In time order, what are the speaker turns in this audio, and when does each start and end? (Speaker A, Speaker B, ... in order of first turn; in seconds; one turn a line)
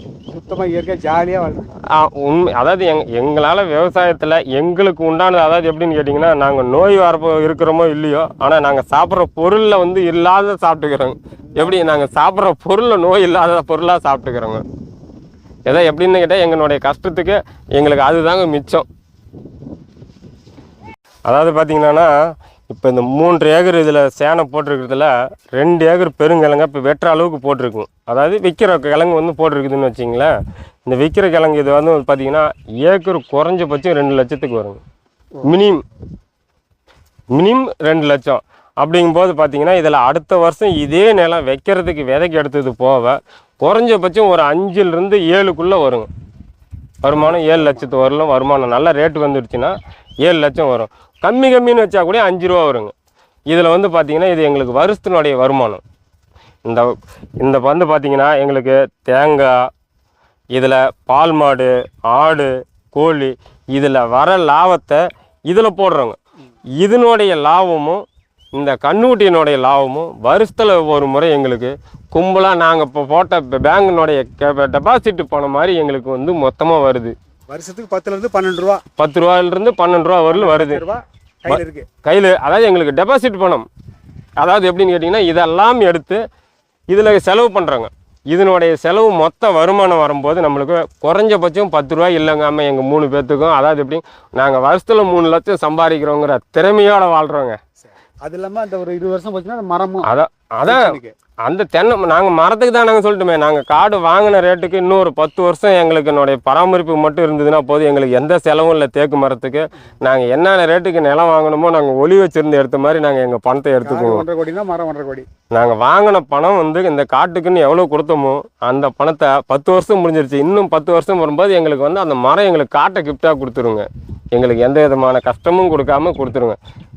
Speaker A: 0.3-1.8
Speaker B: 1.9-14.6
Speaker A: 11.6-12.0
Speaker B: 15.7-18.9
Speaker B: 21.3-22.1
Speaker B: 22.7-30.3
Speaker B: 30.9-34.8
Speaker B: 35.4-35.8
Speaker B: 37.3-46.1
Speaker B: 47.0-52.9
Speaker A: 47.1-47.9
Speaker B: 53.5-55.8
Speaker B: 56.7-59.7
Speaker B: 60.5-66.2
Speaker B: 66.8-68.0
Speaker B: 68.5-77.1
Speaker A: 77.5-78.8
Speaker B: 79.0-80.8
Speaker A: 80.3-81.9
Speaker B: 81.5-83.7
Speaker B: 84.4-86.2
Speaker B: 86.9-97.6
Speaker A: 97.8-100.1
Speaker B: 100.0-114.2
Speaker A: 100.7-101.1
Speaker A: 113.8-115.3
Speaker B: 115.5-126.6